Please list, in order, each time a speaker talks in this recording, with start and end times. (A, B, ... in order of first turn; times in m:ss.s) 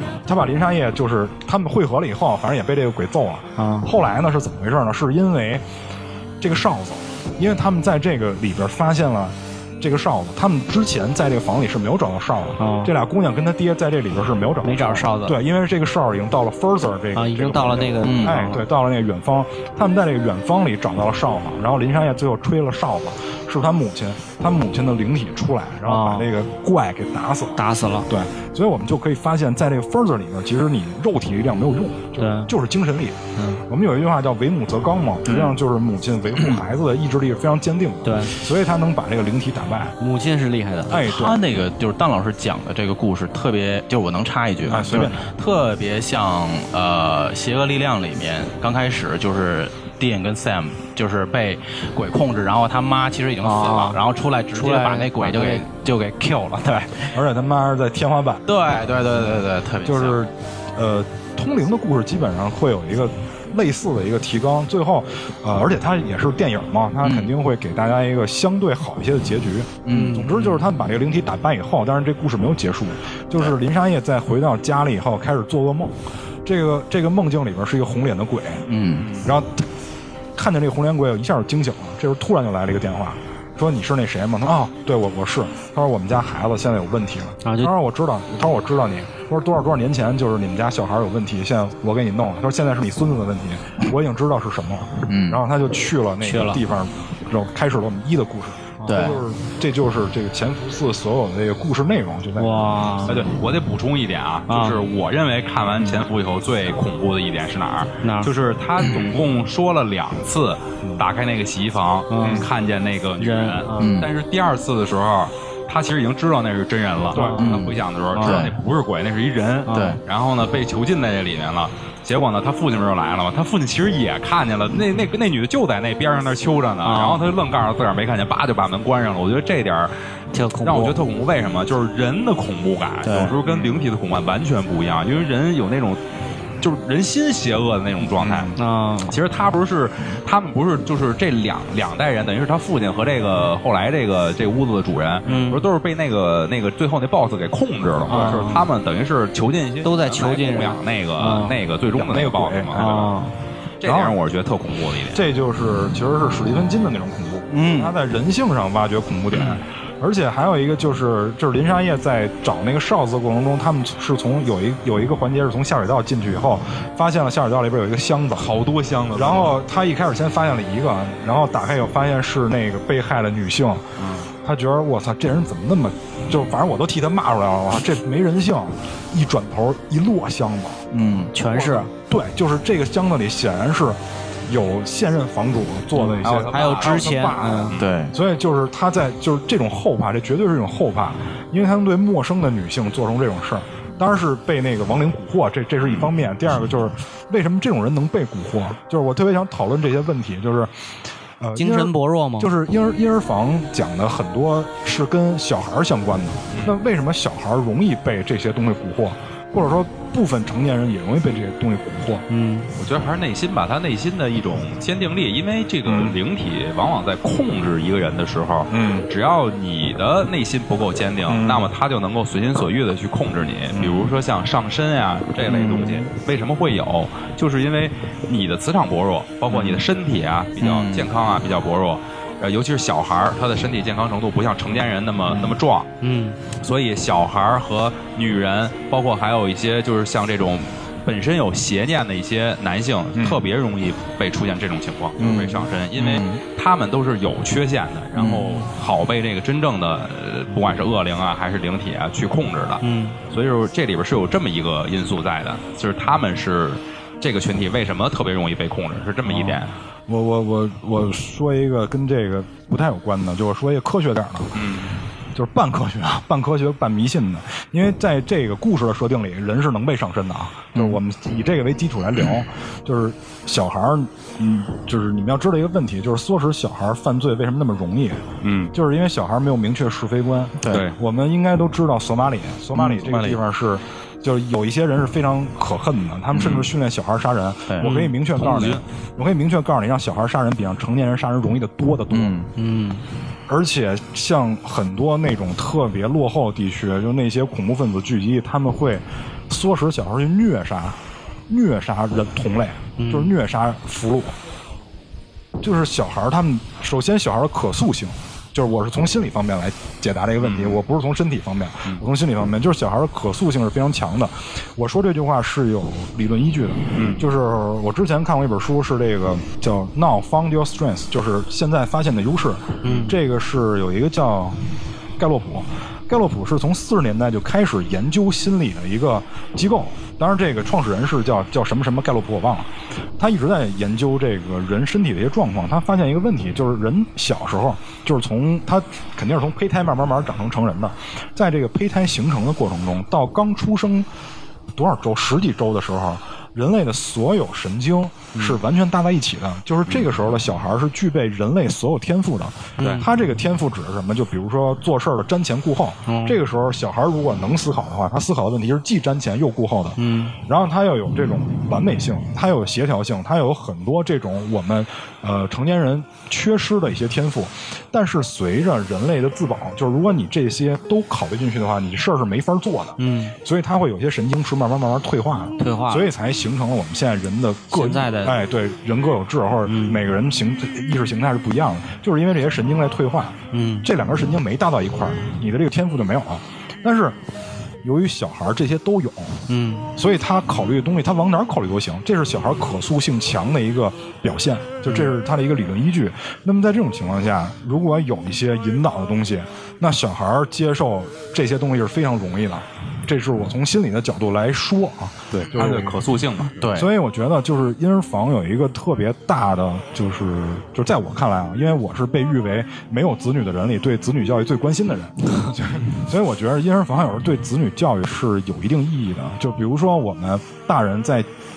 0:00.2-0:05.6 A
0:03.6-0:03.9 B
0:06.4-0:33.2 A
0:12.6-0:12.9 B
0:14.6-0:15.3 B
0:17.1-0:18.6 B
0:18.0-0:18.4 C
0:25.9-0:26.3 B
0:27.6-0:28.1 B
0:32.2-0:32.5 B
0:33.4-0:33.6 B
0:33.7-0:39.9 A
0:35.3-0:35.5 C
0:38.0-0:38.4 B
0:40.0-0:41.0 B
0:40.9-0:41.6 A
0:40.9-0:57.1 C
0:44.6-0:45.3 A
0:53.4-0:54.0 B
0:54.5-0:55.6 B
0:57.1-1:18.6 A
0:58.5-1:00.2 C
1:07.0-1:07.3 C
1:09.8-1:10.3 C
1:09.9-1:10.6 B
1:18.7-1:19.1 C
1:19.2-1:19.7 A
1:20.4-1:43.2 A
1:27.4-1:27.7 B
1:35.1-1:35.4 C
1:36.2-1:36.6 B
1:38.8-1:39.2 B
1:38.9-1:39.2 C
1:42.4-1:43.2 B
1:43.0-2:10.0 D
1:44.5-1:44.8 B
1:48.0-1:48.3 B
1:48.8-1:49.1 C
1:52.1-1:52.5 B
1:52.2-1:52.5 A
1:53.2-1:54.0 B
1:53.8-1:54.1 C
1:57.1-1:57.4 A
1:57.1-1:58.5 B
1:57.4-1:58.5 C
1:59.7-2:00.0 B
1:59.7-2:00.0 C
2:06.8-2:07.2 B
2:10.3-2:11.0 B
2:10.6-2:16.0 D
2:13.0-2:13.3 C
2:13.4-2:13.8 A
2:16.6-2:18.5 D
2:18.2-2:18.6 A
2:18.6-2:19.2 B
2:19.1-2:33.1 D
2:25.2-2:25.6 B
2:28.0-2:28.5 A
2:28.1-2:28.6 B
2:29.8-2:31.5 B
2:31.9-2:32.9 A
2:32.7-2:33.3 B
2:33.8-2:35.2 D
2:33.8-2:34.2 A
2:35.1-2:48.5 A
2:37.5-2:37.9 C
2:39.3-2:39.6 D
2:48.4-2:49.6 D
2:49.1-2:53.9 A
2:54.0-2:54.3 D
2:54.4-3:00.9 A
3:00.9-3:01.3 C
3:01.3-3:01.9 B
3:01.5-3:20.7 A
3:06.0-3:07.8 B
3:06.2-3:07.1 D
3:07.8-3:08.1 C
3:21.4-3:32.2 A
3:21.5-3:22.5 B
3:32.3-3:32.7 B
3:32.8-3:55.9 D
3:35.8-3:36.2 A
3:38.7-3:39.1 A
3:41.3-3:41.6 A
3:43.7-3:44.1 A
3:45.4-3:46.0 C
3:50.6-3:51.1 C
3:56.0-3:56.4 B
3:56.6-4:19.7 D
4:03.1-4:03.4 A
4:05.2-4:05.6 A
4:06.0-4:06.4 C
4:08.1-4:08.6 C
4:12.8-4:13.2 B
4:19.3-4:19.6 A
4:20.1-4:24.6 A
4:24.5-4:25.0 D
4:25.3-4:52.5 A
4:30.7-4:31.0 C
4:38.4-4:38.7 D
4:40.7-4:41.0 D
4:42.7-4:43.4 C
4:46.3-4:46.6 C
4:48.4-4:48.8 D
4:48.4-4:48.8 C
4:52.1-4:52.5 C
4:52.6-4:53.0 B
4:53.5-5:01.0 A
5:01.5-5:04.4 A
5:03.0-5:03.3 B
5:05.6-5:44.1 A
5:10.4-5:10.8 D
5:16.9-5:17.2 D
5:22.8-5:23.1 B
5:44.7-6:27.2 A
5:48.3-5:48.6 D
5:52.8-5:53.0 D
5:52.8-5:53.1 B
5:56.1-5:56.4 B
6:00.0-6:00.4 B
6:13.0-6:13.3 B
6:15.6-6:16.1 B
6:17.7-6:18.3 B
6:19.7-6:20.0 B
6:23.5-6:23.9 B
6:27.8-6:29.4 A
6:29.5-6:29.9 B
6:30.0-6:46.0 A
6:45.3-6:46.6 D
6:46.6-6:46.9 C
6:46.6-7:01.3 A